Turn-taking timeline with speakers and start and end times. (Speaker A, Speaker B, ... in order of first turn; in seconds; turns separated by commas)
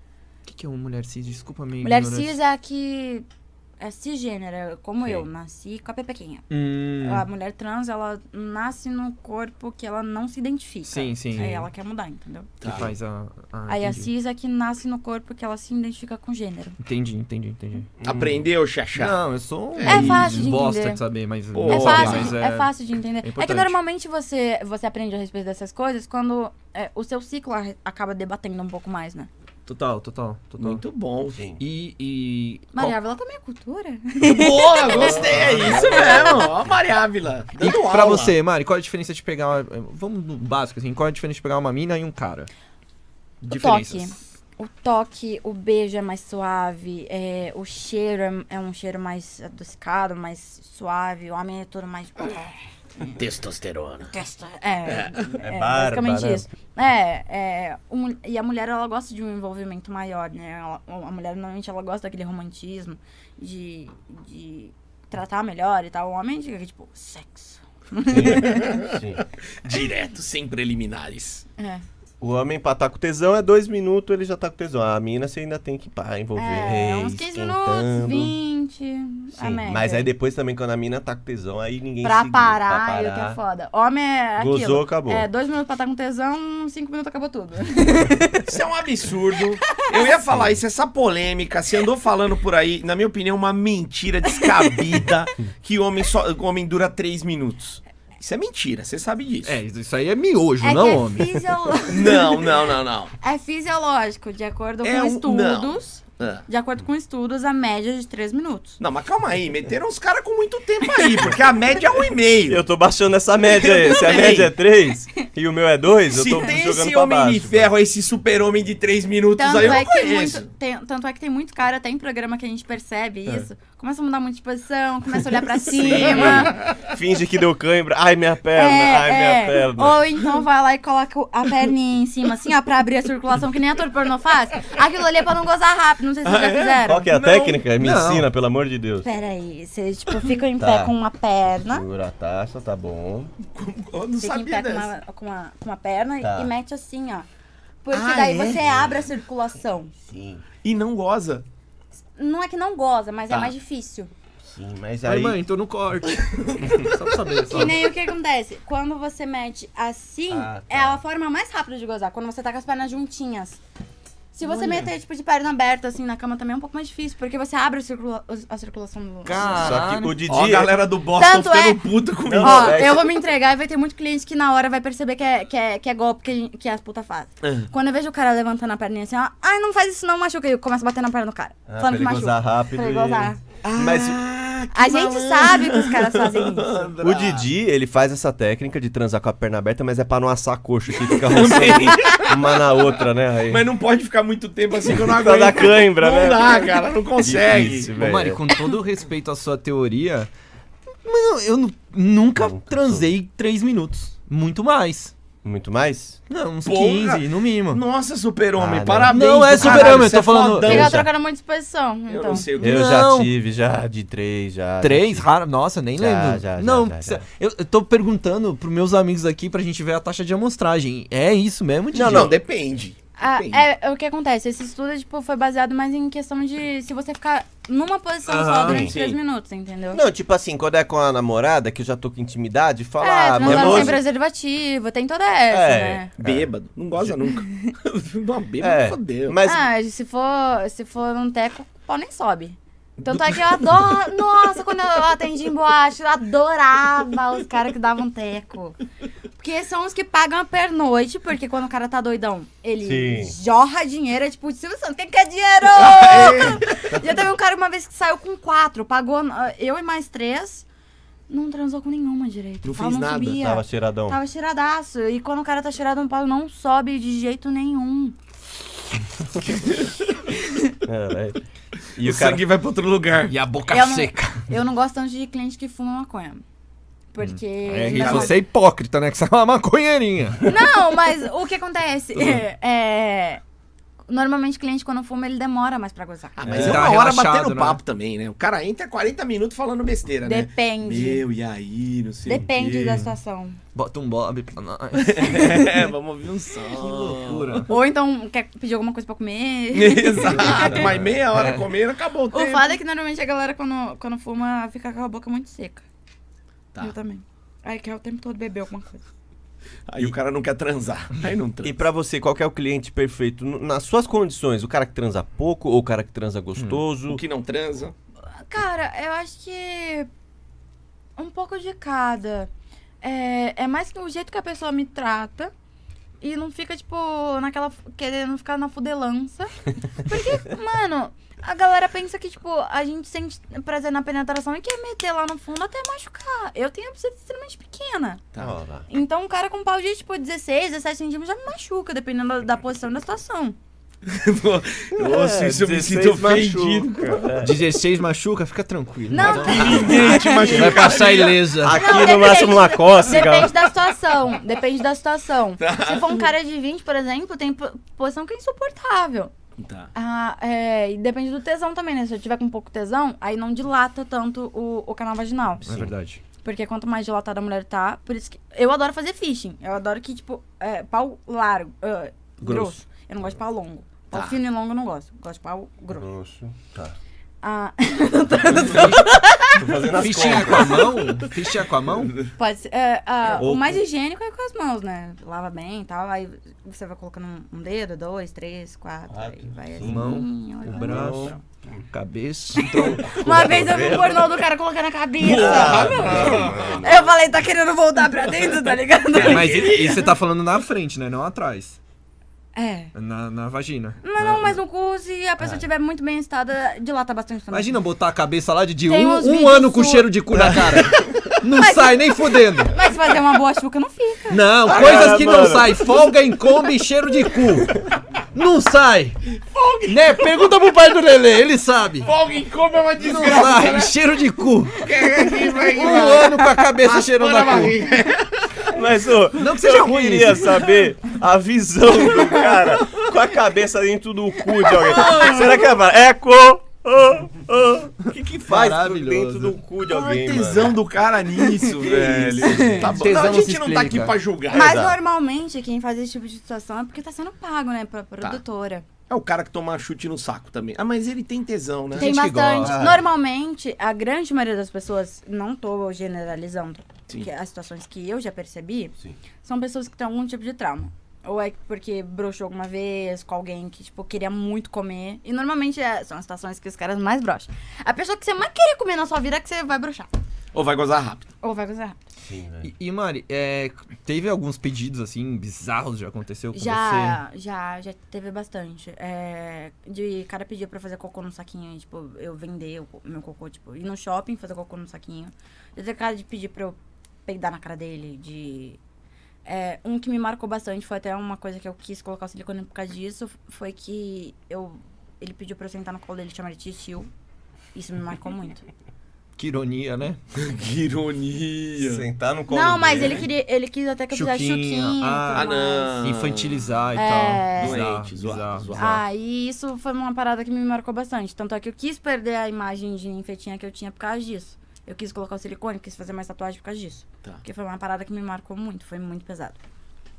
Speaker A: 0.4-2.4, Speaker B: 1.8-3.3, Speaker B: 3.8-12.6, Speaker A: 6.5-7.2, Speaker A: 10.8-11.7, Speaker C: 12.6-12.9, Speaker A: 12.6-14.1, Speaker B: 13.7-16.8, Speaker A: 16.8-17.9, Speaker D: 18.0-18.4, Speaker C: 18.0-19.2, Speaker A: 18.9-22.7, Speaker C: 19.7-20.4, Speaker B: 19.8-21.0, Speaker C: 21.5-22.3, Speaker B: 21.7-29.3, Speaker A: 23.2-23.8, Speaker A: 29.6-30.8, Speaker C: 30.6-31.4, Speaker A: 31.6-32.9, Speaker B: 32.7-36.5, Speaker C: 34.2-38.3, Speaker D: 34.9-36.7, Speaker A: 35.2-36.0, Speaker A: 37.6-42.5, Speaker A: 43.4-44.1, Speaker B: 43.5-53.2, Speaker C: 53.1-54.1, Speaker B: 54.0-68.8, Speaker C: 54.9-55.2, Speaker D: 55.4-56.5, Speaker D: 68.1-69.2, Speaker C: 68.5-68.8, Speaker C: 69.6-71.4, Speaker B: 71.6-71.8, Speaker D: 72.2-78.3, Speaker B: 76.3-80.1, Speaker D: 79.3-83.4, Speaker B: 82.0-88.5, Speaker D: 84.4-85.3, Speaker C: 88.4-99.6, Speaker B: 89.7-90.0, Speaker D: 90.3-90.6, Speaker B: 94.3-95.0, Speaker A: 99.4-101.3, Speaker B: 100.6-102.6, Speaker C: 101.9-103.1, Speaker B: 103.2-108.8, Speaker C: 104.8-106.4, Speaker C: 108.8-112.6, Speaker D: 112.5-117.7, Speaker C: 113.5-114.5, Speaker C: 116.1-120.5, Speaker B: 119.4-126.6, Speaker D: 119.6-119.8, Speaker D: 125.7-130.0, Speaker C: 126.0-126.5, Speaker B: 128.5-137.6, Speaker C: 136.2-136.8, Speaker D: 136.8-139.1, Speaker A: 137.8-138.3, Speaker B: 139.0-141.8, Speaker D: 140.6-140.9, Speaker D: 141.7-143.3, Speaker C: 143.5-144.9, Speaker B: 144.2-147.3, Speaker D: 146.2-146.5, Speaker B: 147.8-149.9, Speaker C: 147.9-148.6, Speaker D: 148.6-149.1, Speaker D: 150.1-150.4, Speaker C: 150.6-151.4, Speaker B: 152.2-154.1, Speaker D: 154.4-155.4, Speaker A: 155.0-157.8, Speaker B: 157.5-163.6, Speaker D: 160.3-161.0, Speaker B: 164.3-169.8, Speaker A: 169.2-170.2, Speaker D: 169.5-170.8, Speaker C: 170.3-172.8, Speaker B: 171.2-171.8, Speaker D: 172.2-173.1, Speaker B: 172.3-183.4, Speaker C: 177.4-177.7, Speaker D: 181.7-184.2, Speaker C: 183.6-187.4, Speaker B: 184.7-186.9, Speaker D: 187.0-193.6, Speaker C: 191.1-192.8, Speaker C: 193.5-197.9, Speaker D: 194.9-198.5, Speaker A: 197.9-200.3, Speaker A: 201.0-205.1, Speaker D: 202.3-203.1, Speaker D: 205.4-206.2, Speaker A: 206.3-207.8, Speaker C: 206.6-211.1, Speaker D: 208.6-209.7, Speaker A: 209.1-211.1, Speaker B: 209.6-210.1, Speaker B: 210.6-212.5, Speaker C: 212.1-212.9, Speaker A: 212.6-213.3, Speaker D: 212.6-215.3, Speaker A: 214.8-222.3, Speaker D: 215.9-217.2, Speaker D: 221.9-222.3, Speaker C: 221.9-223.6, Speaker B: 223.2-230.0, Speaker A: 228.3-228.8, Speaker D: 228.6-228.9, Speaker C: 228.7-229.2, Speaker D: 229.9-234.0, Speaker B: 233.0-236.1, Speaker C: 233.4-233.9, Speaker D: 235.5-236.5, Speaker C: 236.2-239.4, Speaker B: 237.4-237.7, Speaker D: 238.6-239.7, Speaker B: 239.4-248.8, Speaker B: 249.4-260.6, Speaker D: 252.8-253.3, Speaker C: 255.7-256.7, Speaker B: 261.3-268.1, Speaker C: 262.6-263.4, Speaker D: 263.3-264.2, Speaker D: 270.8-271.4, Speaker D: 271.9-272.4, Speaker C: 272.0-273.4, Speaker A: 273.3-274.4, Speaker B: 273.7-276.4, Speaker B: 277.1-278.4, Speaker A: 277.2-280.5, Speaker C: 277.9-278.3, Speaker B: 280.4-283.4, Speaker A: 282.1-282.4, Speaker B: 284.1-286.5, Speaker C: 286.4-292.8, Speaker D: 286.4-286.9, Speaker A: 286.5-287.8, Speaker B: 290.2-291.2, Speaker B: 292.2-293.6, Speaker A: 293.7-295.8, Speaker C: 295.0-297.7, Speaker A: 296.7-297.7, Speaker B: 297.7-300.9, Speaker C: 299.7-302.7, Speaker D: 300.6-301.0, Speaker A: 301.3-301.6, Speaker B: 302.3-305.8, Speaker B: 306.8-309.0, Speaker C: 309.9-311.8, Speaker D: 311.6-317.2, Speaker A: 316.6-316.8, Speaker C: 317.1-317.9, Speaker B: 318.3-320.1, Speaker B: 321.2-322.5, Speaker B: 323.0-325.5, Speaker B: 326.2-338.2, Speaker D: 338.4-338.9, Speaker B: 338.9-343.6, Speaker C: 344.1-347.3, Speaker D: 344.9-347.6, Speaker A: 347.4-351.8, Speaker B: 349.1-351.1, Speaker C: 349.2-351.6, Speaker D: 349.8-350.5, Speaker D: 351.6-353.5, Speaker B: 351.7-359.3, Speaker C: 355.6-356.2, Speaker C: 359.6-359.9, Speaker B: 359.9-365.9, Speaker A: 365.6-366.2, Speaker B: 366.4-376.1, Speaker A: 372.4-372.8, Speaker C: 374.1-374.4, Speaker D: 375.9-376.9, Speaker B: 377.4-379.6, Speaker A: 378.5-379.2, Speaker D: 379.5-381.0, Speaker A: 379.9-382.2, Speaker B: 382.4-391.4, Speaker A: 383.3-383.8, Speaker D: 389.1-391.9, Speaker A: 389.8-391.4, Speaker A: 391.9-393.6, Speaker B: 392.6-400.1, Speaker D: 392.7-394.4, Speaker C: 395.2-396.9, Speaker D: 395.3-397.1, Speaker C: 399.1-400.0, Speaker A: 399.2-401.8, Speaker B: 402.5-402.9, Speaker A: 402.9-404.6, Speaker B: 404.0-407.8, Speaker A: 407.5-412.8, Speaker B: 408.8-410.1, Speaker C: 410.5-410.9, Speaker B: 411.5-415.1, Speaker A: 414.3-419.2, Speaker D: 414.6-415.9, Speaker C: 414.7-415.2, Speaker C: 419.5-420.2, Speaker A: 419.9-422.1, Speaker C: 422.0-423.9, Speaker A: 423.0-424.9, Speaker C: 424.8-428.7, Speaker A: 425.6-427.9, Speaker D: 428.7-440.8, Speaker A: 429.4-430.8, Speaker B: 432.1-432.9, Speaker B: 434.6-435.7, Speaker A: 438.5-439.6, Speaker C: 439.9-444.7, Speaker D: 441.8-442.9, Speaker B: 442.4-442.8, Speaker A: 442.6-444.1, Speaker D: 444.5-445.0, Speaker B: 444.5-448.9, Speaker C: 449.1-452.1, Speaker A: 451.9-452.8, Speaker B: 452.0-470.1, Speaker D: 452.5-453.1, Speaker C: 470.5-471.3, Speaker B: 471.4-471.9, Speaker D: 472.2-472.7, Speaker A: 472.6-477.2, Speaker B: 476.5-488.8, Speaker B: 489.4-497.1, Speaker B: 497.7-498.6, Speaker A: 499.4-500.2, Speaker C: 500.3-502.1, Speaker D: 501.8-503.3, Speaker B: 502.5-506.0, Speaker A: 504.1-509.0, Speaker C: 505.3-506.7, Speaker B: 506.9-507.8, Speaker C: 507.5-509.0, Speaker B: 508.7-519.6